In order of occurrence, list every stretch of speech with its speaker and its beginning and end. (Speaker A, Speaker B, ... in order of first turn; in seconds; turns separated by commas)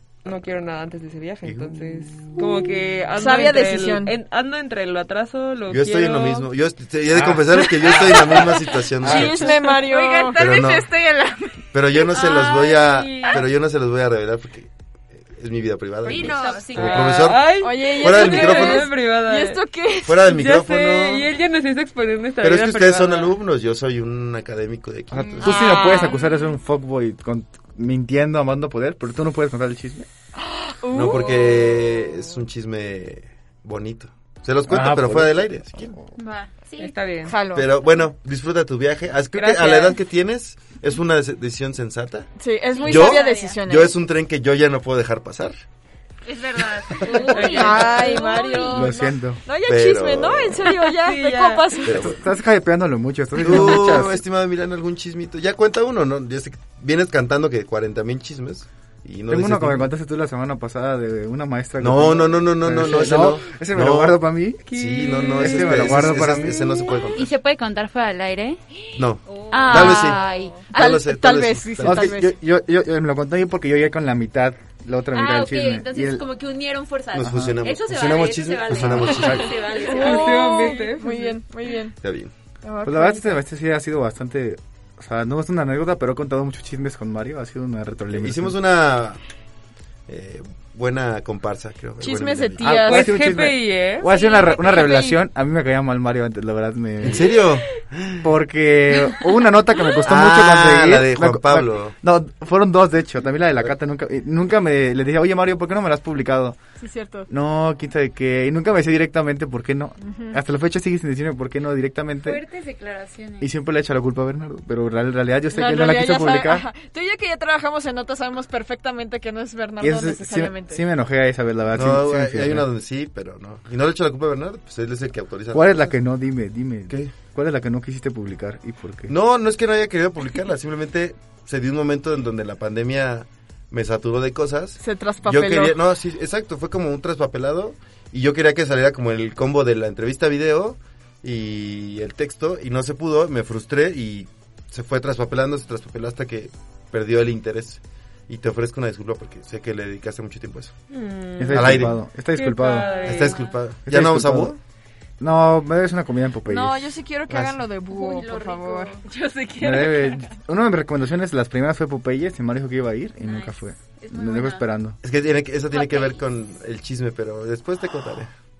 Speaker A: 0.2-6.5, Speaker B: 1.4-2.0, Speaker C: 3.1-4.1, Speaker B: 5.7-9.6, Speaker D: 7.1-8.3, Speaker D: 9.0-9.3, Speaker C: 9.0-10.6, Speaker E: 9.7-11.5, Speaker B: 10.3-10.9, Speaker B: 11.7-18.9, Speaker E: 16.0-17.1, Speaker F: 16.1-17.2, Speaker A: 16.5-19.6, Speaker C: 17.6-20.3, Speaker B: 20.0-21.3, Speaker A: 20.2-23.3, Speaker B: 22.4-25.7, Speaker D: 25.1-30.1, Speaker F: 25.6-26.1, Speaker C: 30.4-31.8, Speaker B: 30.9-35.9, Speaker D: 34.7-36.0, Speaker F: 36.2-37.0, Speaker A: 36.8-37.4, Speaker C: 37.2-37.7, Speaker B: 37.5-42.3, Speaker A: 39.3-40.0, Speaker C: 42.4-43.9, Speaker F: 42.7-43.6, Speaker B: 42.8-45.6, Speaker E: 46.2-47.7, Speaker F: 47.0-48.9, Speaker A: 47.3-48.9, Speaker C: 47.5-52.1, Speaker D: 48.7-49.4, Speaker B: 49.6-50.7, Speaker A: 50.7-51.9, Speaker B: 51.8-52.2, Speaker D: 51.9-54.2, Speaker B: 53.4-59.9, Speaker D: 59.3-64.6, Speaker B: 61.8-67.3, Speaker A: 64.7-65.8, Speaker D: 65.4-66.8, Speaker F: 67.1-68.6, Speaker B: 68.9-70.2, Speaker F: 69.5-71.0, Speaker C: 69.8-70.0, Speaker B: 70.7-72.2, Speaker C: 70.7-72.3, Speaker D: 71.8-76.2, Speaker F: 75.1-80.4, Speaker B: 77.1-79.6, Speaker D: 77.2-77.6, Speaker D: 78.8-79.4, Speaker C: 79.8-82.0, Speaker A: 79.9-81.4, Speaker B: 82.0-82.3, Speaker C: 82.6-83.4, Speaker D: 82.8-88.6, Speaker B: 88.1-89.2, Speaker B: 90.1-92.7, Speaker C: 92.0-93.1, Speaker D: 92.6-97.4, Speaker A: 92.7-94.5, Speaker F: 94.3-95.0, Speaker B: 97.0-98.3, Speaker D: 98.2-106.6, Speaker B: 100.0-101.9, Speaker C: 106.8-107.3, Speaker D: 107.3-112.4, Speaker C: 110.0-110.4, Speaker F: 112.2-113.5, Speaker D: 113.4-116.6, Speaker C: 115.5-120.8, Speaker D: 119.8-122.7, Speaker B: 121.7-125.9, Speaker D: 125.5-129.1, Speaker B: 126.9-127.1, Speaker B: 129.1-150.7, Speaker C: 134.8-135.8, Speaker A: 150.9-153.4, Speaker D: 151.4-152.9, Speaker B: 151.5-152.0, Speaker F: 152.8-153.5, Speaker B: 153.0-154.6, Speaker D: 153.8-154.5, Speaker D: 155.2-156.9, Speaker C: 156.4-159.0, Speaker B: 157.3-157.6, Speaker F: 157.9-160.1, Speaker D: 159.6-165.0, Speaker F: 163.2-164.7, Speaker B: 165.0-168.3, Speaker F: 165.7-166.2